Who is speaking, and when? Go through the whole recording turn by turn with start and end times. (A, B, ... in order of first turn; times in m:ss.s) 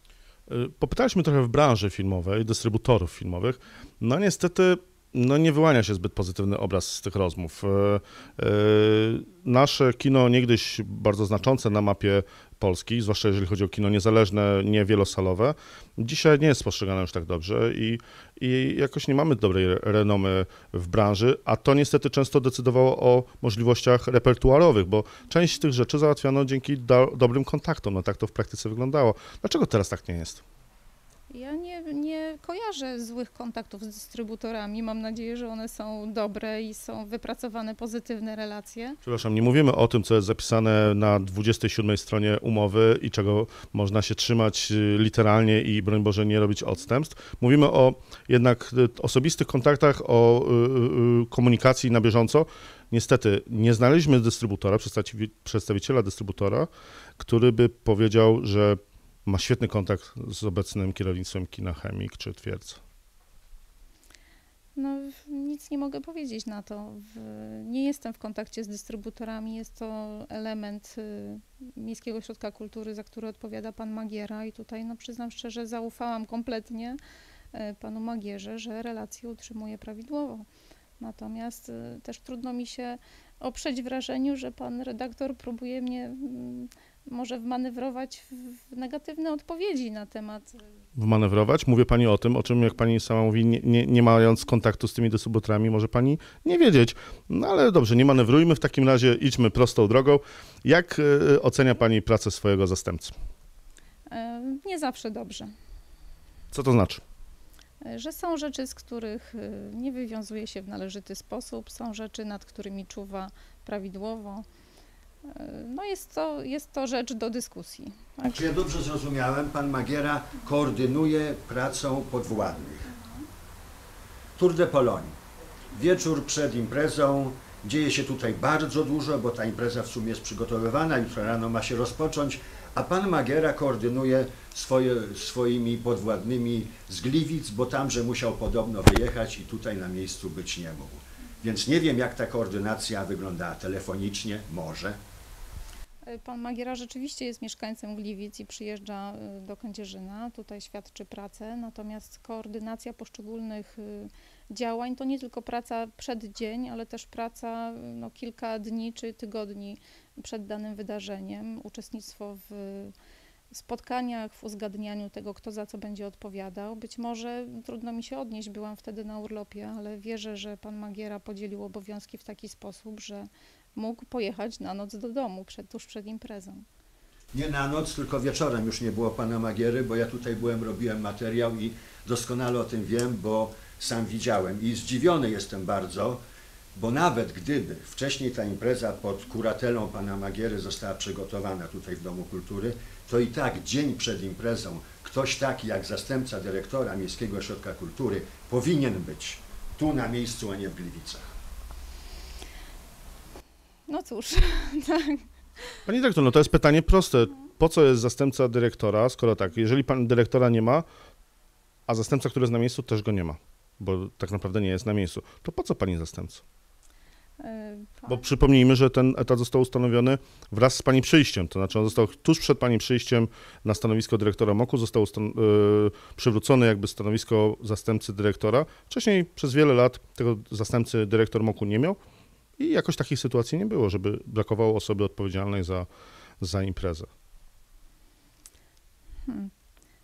0:00.5-0:30.4 A
0:31.3-0:39.0 B
0:39.0-0:56.7 A
0:57.2-1:02.8 A
1:04.8-1:17.0 B
1:17.5-1:20.5 B
1:21.0-1:30.6 B
1:31.0-1:43.2 A
1:44.1-1:45.5 B
1:46.5-1:47.0 A
1:47.8-1:54.4 B
1:55.2-1:58.4 B
1:58.3-2:02.9 C
2:04.4-2:05.2 C
2:05.7-2:25.0 C
2:26.1-2:42.9 B
2:43.5-2:56.6 B
2:57.3-3:06.2 C
3:06.8-3:21.2 C
3:23.9-3:25.2 B
3:25.9-3:30.9 A
3:31.9-3:36.4 A
3:37.4-3:38.2 B
3:38.1-3:52.0 A
3:52.6-3:55.9 A
3:56.4-3:57.1 A
3:59.2-3:59.5 B